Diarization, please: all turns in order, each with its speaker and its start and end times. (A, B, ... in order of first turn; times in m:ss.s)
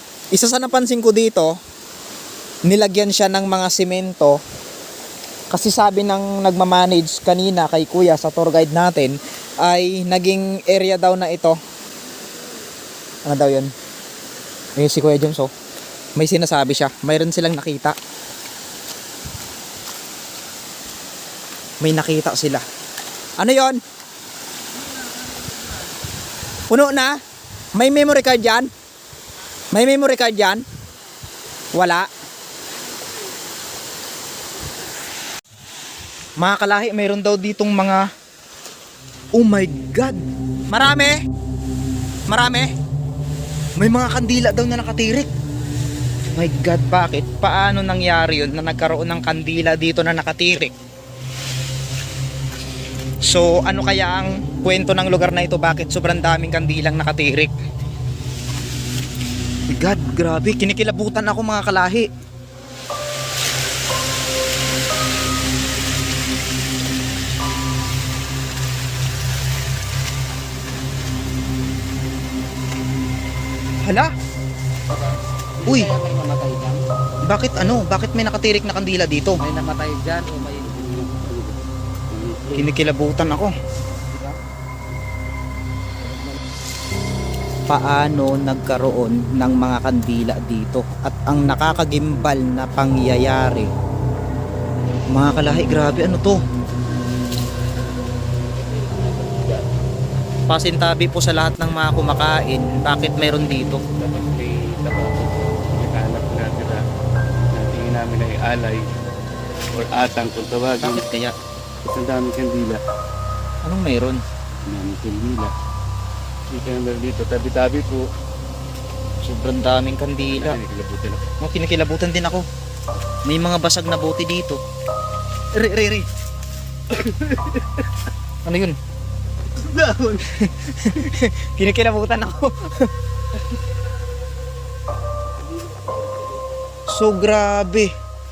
0:00.3-0:01.6 A
0:02.7-0:04.4 A
0:05.5-0:11.6 A
0:13.3-0:13.7 A
0:14.8-0:15.5 A
0:16.2-0:18.0 A
0:21.8-0:22.6 A
0:23.4-0:23.8 A
0:26.7-0:27.2 A
0:27.8-0:28.7 A
0:29.7-0:30.6 A
0:31.7-0:32.1 A
0:36.4-0:38.1 A
0:39.4-0:41.2 A
0:42.3-0:42.7 A
0:43.8-0:45.3 A
0:46.4-0:50.7 A
0:53.3-0:57.5 A
0:59.7-1:02.1 A
1:13.8-1:14.1 A
1:15.6-1:16.8 B
1:15.7-1:15.9 A
1:17.3-1:19.4 A
1:19.4-1:21.3 B
1:22.6-1:23.5 A
1:26.0-1:26.3 B
1:27.7-1:33.7 A
1:35.1-1:36.4 A
1:38.5-1:39.6 C
1:40.5-1:43.8 A
1:43.9-1:46.8 C
1:47.5-1:48.9 C
1:49.7-1:51.0 C
1:50.8-1:51.3 A
1:51.9-1:52.8 C
1:53.6-1:54.2 A
1:54.7-1:55.5 C
1:56.5-1:58.1 C
1:59.2-2:00.6 A
2:00.2-2:01.3 C
2:01.4-2:02.4 A
2:03.3-2:04.6 A
2:05.5-2:06.1 A
2:07.0-2:07.5 C
2:08.4-2:08.8 A
2:09.6-2:10.2 C
2:10.4-2:12.9 A
2:16.9-2:17.9 A